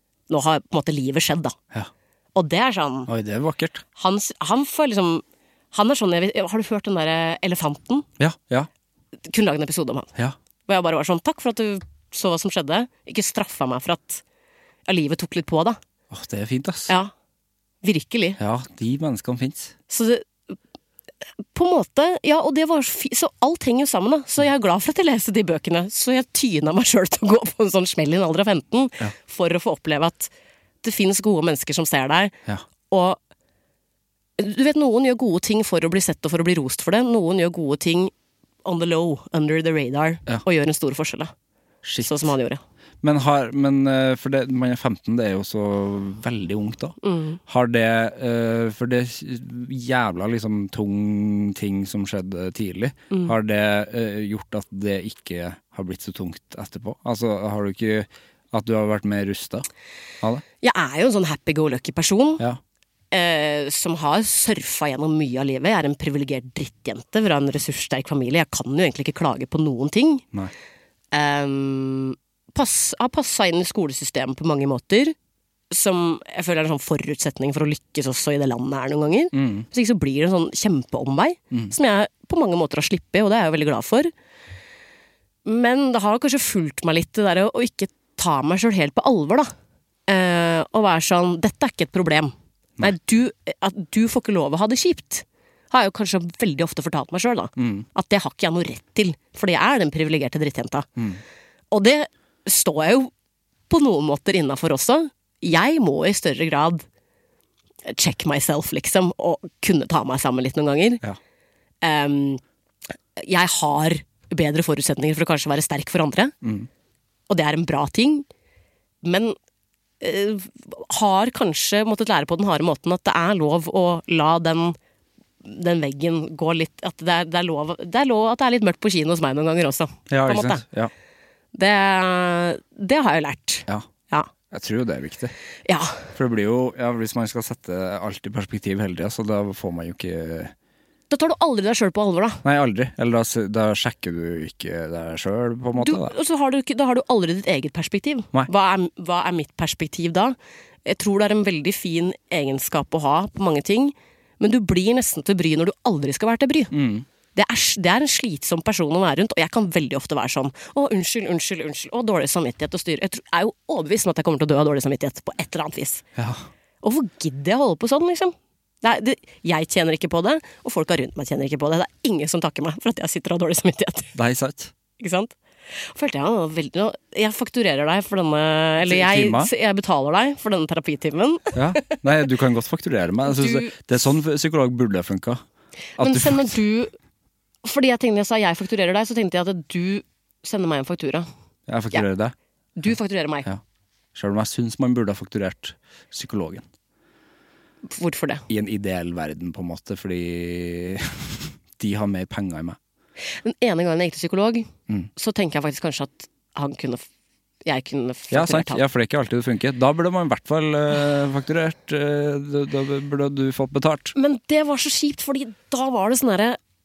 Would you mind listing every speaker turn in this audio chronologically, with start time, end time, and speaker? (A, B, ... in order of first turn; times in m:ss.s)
0:00.3-0:01.6 A
0:02.4-0:03.1 A
0:03.1-0:03.8 B
0:04.0-0:08.1 A
0:08.2-0:08.7 B
0:09.3-0:10.1 A
0:10.7-0:14.2 A
0:14.9-0:15.8 A
0:16.1-0:16.9 B
0:17.8-0:18.4 A
0:18.4-0:19.7 B
0:19.9-0:20.6 A
0:21.5-0:30.3 A
0:30.8-0:32.4 A
0:32.9-0:33.2 A
0:34.4-0:38.1 A
0:38.6-0:41.3 A
0:41.8-0:42.3 B
0:42.0-0:42.6 A
0:43.0-0:47.0 B
0:47.0-0:47.4 A
0:47.5-0:59.7 B
1:00.6-1:02.4 A
1:03.1-1:10.2 A
1:11.1-1:15.1 A
1:15.7-1:24.1 A
1:19.3-1:19.7 B
1:25.4-1:29.5 A
1:30.1-1:40.9 A
1:37.6-1:37.9 B
1:41.7-1:43.1 A
1:43.7-1:46.8 A
1:47.9-1:51.0 A
1:51.8-1:52.4 A
1:53.2-1:56.3 A
1:56.4-1:56.7 B
1:57.3-1:58.3 A
1:59.0-1:59.4 A
2:00.0-2:04.8 A
2:05.4-2:10.6 A
2:10.1-2:10.9 B
2:11.5-2:14.3 A
2:14.5-2:15.3 B
2:15.7-2:16.1 A
2:16.1-2:20.5 B
2:21.1-2:22.4 A
2:22.4-2:26.1 B
2:25.8-2:36.7 A
2:36.7-2:37.1 B
2:37.4-2:46.0 A
2:46.2-2:46.5 B
2:46.8-2:54.1 A
2:54.1-2:54.7 B
2:55.0-3:02.0 A
2:58.8-2:59.5 B
3:01.5-3:05.4 B
3:03.2-3:03.8 A
3:06.0-3:06.6 B
3:06.0-3:06.9 A
3:07.6-3:11.3 A
3:11.7-3:12.4 B
3:12.8-3:13.5 A
3:14.1-3:16.6 B
3:17.8-3:18.4 A
3:18.5-3:22.8 B
3:23.4-3:27.0 A
3:27.6-3:28.8 A
3:28.3-3:34.2 B
3:34.1-3:36.6 A